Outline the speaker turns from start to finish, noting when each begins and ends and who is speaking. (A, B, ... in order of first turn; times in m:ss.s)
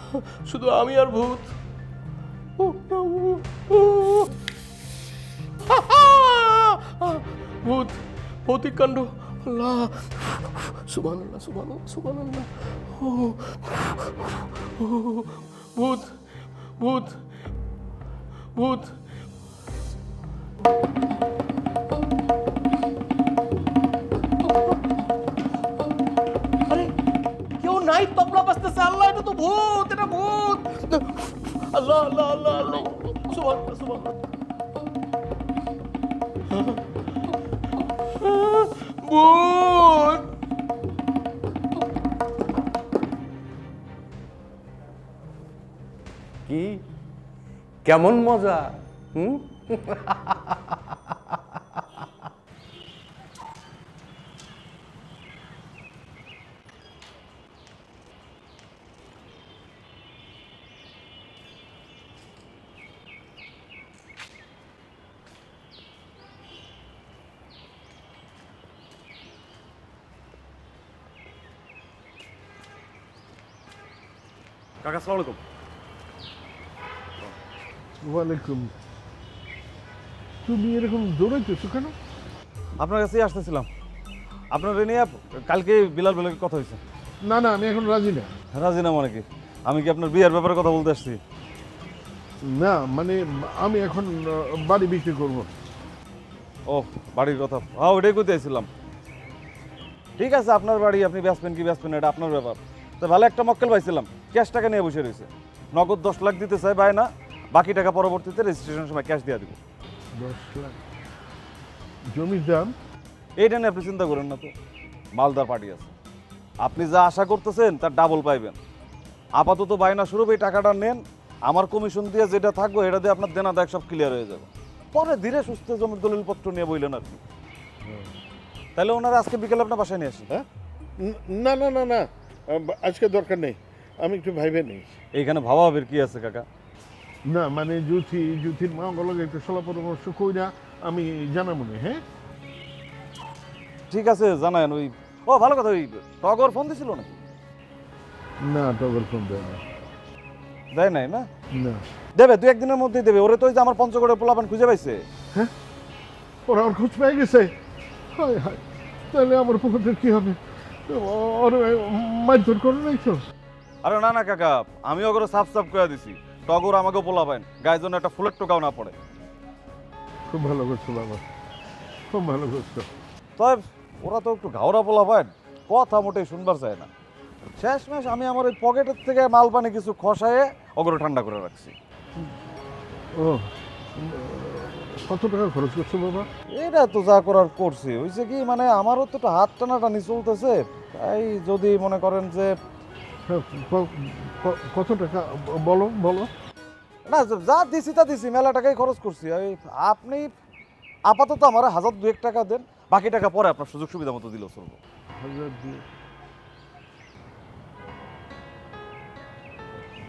0:00.4-0:01.5 A
0:02.6-0:04.2 A
0:05.9-0:06.6 A
0:07.6-0:10.1 A
0:10.9-0:12.5 A
0:13.0-0:13.3 A
0:15.8-0:16.1 A
0:16.8-0:17.2 A
0:18.6-0:18.9 A
0:27.6-0:34.1 A
0:39.0-0:40.2 A
0:46.5-0:46.8 B
0:47.8-0:49.9 B
1:14.8-1:15.4 C
1:18.0-1:18.7 D
1:20.4-1:21.9 D
1:22.8-1:23.7 C
1:24.5-1:26.8 C
1:27.2-1:28.3 D
1:28.5-1:31.2 C
1:32.4-1:35.5 D
1:36.7-1:38.7 C
1:40.2-1:49.6 C
1:50.1-1:50.8 D
1:52.1-1:52.7 D
1:53.4-1:54.5 C
1:55.2-1:55.9 C
1:56.6-1:58.6 C
1:59.4-2:07.2 C
2:07.8-2:08.1 D
2:08.8-2:10.3 C
2:11.0-2:14.9 D
2:15.1-2:16.4 C
2:17.3-2:22.0 D
2:23.9-2:27.2 C
2:28.4-2:29.6 D
2:30.7-2:31.2 C
2:31.5-2:31.8 D
2:32.2-2:35.0 C
2:36.5-2:37.5 D
2:38.2-2:40.4 D
2:40.9-2:43.2 D
2:43.8-2:49.0 C
2:50.3-2:51.2 D
2:52.1-2:52.9 D
2:53.4-2:56.9 C
2:57.6-3:01.7 C
3:03.2-3:06.3 D
3:06.5-3:12.5 C
3:13.3-3:16.3 D
3:17.1-3:20.3 C
3:21.1-3:24.8 C
3:25.2-3:25.8 D